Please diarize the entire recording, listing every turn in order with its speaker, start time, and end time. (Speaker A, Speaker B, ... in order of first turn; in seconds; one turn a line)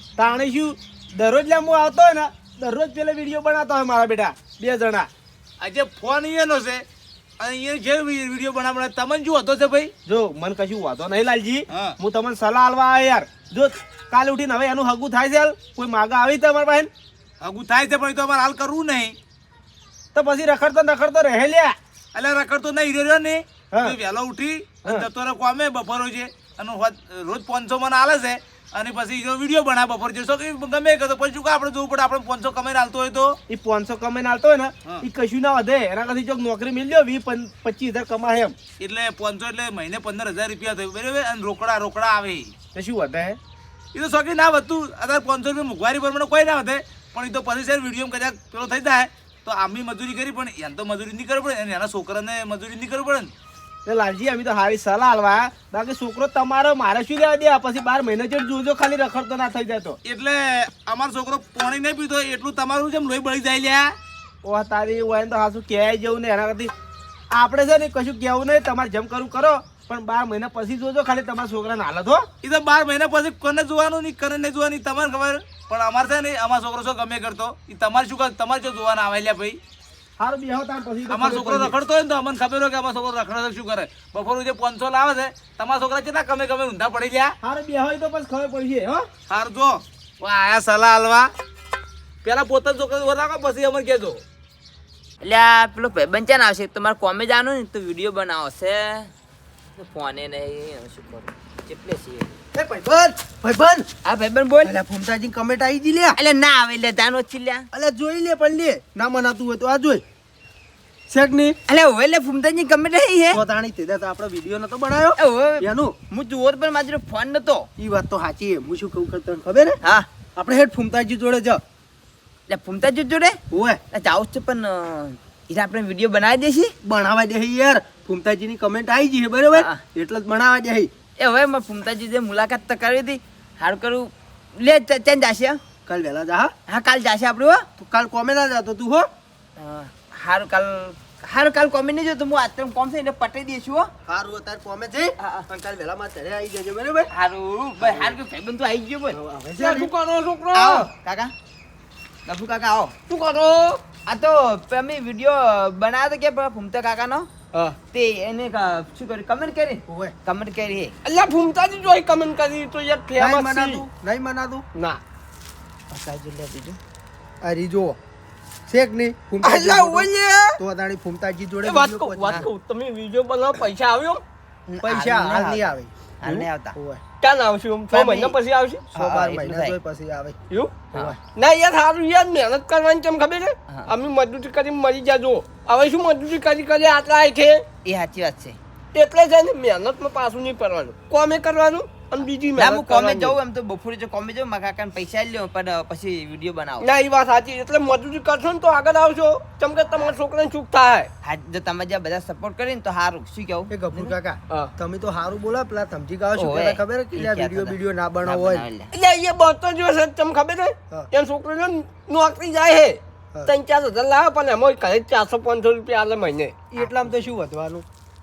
Speaker A: 0.2-5.1
Speaker B: 5.6-6.8
Speaker B: 7.4-9.9
Speaker A: 10.1-16.9
Speaker B: 11.7-11.9
Speaker B: 17.4-19.2
Speaker A: 20.1-21.8
Speaker B: 22.1-33.4
Speaker A: 33.5-38.5
Speaker B: 38.8-42.5
Speaker A: 42.7-43.4
Speaker B: 43.9-53.3
Speaker A: 53.9-60.0
Speaker B: 60.0-64.0
Speaker A: 64.4-66.7
Speaker A: 67.3-72.3
Speaker B: 72.4-79.6
Speaker A: 80.2-81.6
Speaker B: 81.1-87.4
Speaker C: 81.3-81.7
Speaker A: 87.4-89.1
Speaker B: 89.3-91.3
Speaker B: 92.2-94.2
Speaker D: 95.2-99.1
Speaker D: 99.8-102.3
Speaker C: 102.5-103.9
Speaker D: 104.0-104.7
Speaker C: 104.6-106.2
Speaker D: 106.2-107.7
Speaker C: 107.7-110.0
Speaker C: 111.1-111.6
Speaker D: 111.7-113.4
Speaker C: 113.3-116.0
Speaker D: 115.2-117.7
Speaker C: 117.8-119.8
Speaker D: 119.8-120.1
Speaker C: 120.4-121.6
Speaker D: 122.5-123.4
Speaker C: 123.5-123.8
Speaker D: 123.9-126.7
Speaker C: 126.8-130.9
Speaker D: 129.5-129.8
Speaker D: 131.2-135.6
Speaker C: 135.9-136.5
Speaker D: 136.7-137.7
Speaker C: 137.8-139.1
Speaker D: 139.6-143.9
Speaker C: 144.1-147.1
Speaker D: 145.2-145.5
Speaker D: 147.1-149.2
Speaker C: 149.1-149.9
Speaker E: 149.6-150.9
Speaker D: 150.5-151.3
Speaker D: 152.3-152.9
Speaker E: 153.1-153.8
Speaker D: 154.1-157.3
Speaker D: 157.9-160.9
Speaker C: 159.9-160.1
Speaker E: 161.1-163.9
Speaker C: 163.2-164.7
Speaker E: 164.8-165.0
Speaker D: 165.9-166.8
Speaker C: 167.4-168.0
Speaker C: 168.7-172.5
Speaker E: 169.4-170.6
Speaker E: 171.6-174.2
Speaker D: 174.7-175.6
Speaker C: 174.8-177.0
Speaker D: 176.2-176.8
Speaker E: 177.2-178.9
Speaker D: 177.9-178.4
Speaker C: 178.9-180.4
Speaker D: 178.9-179.8
Speaker E: 180.5-187.6
Speaker D: 187.9-188.6
Speaker E: 188.9-193.4
Speaker D: 192.6-196.9
Speaker E: 196.8-201.1
Speaker D: 201.2-204.1
Speaker C: 203.7-208.7
Speaker D: 206.4-208.9
Speaker E: 208.9-216.6
Speaker C: 216.7-217.8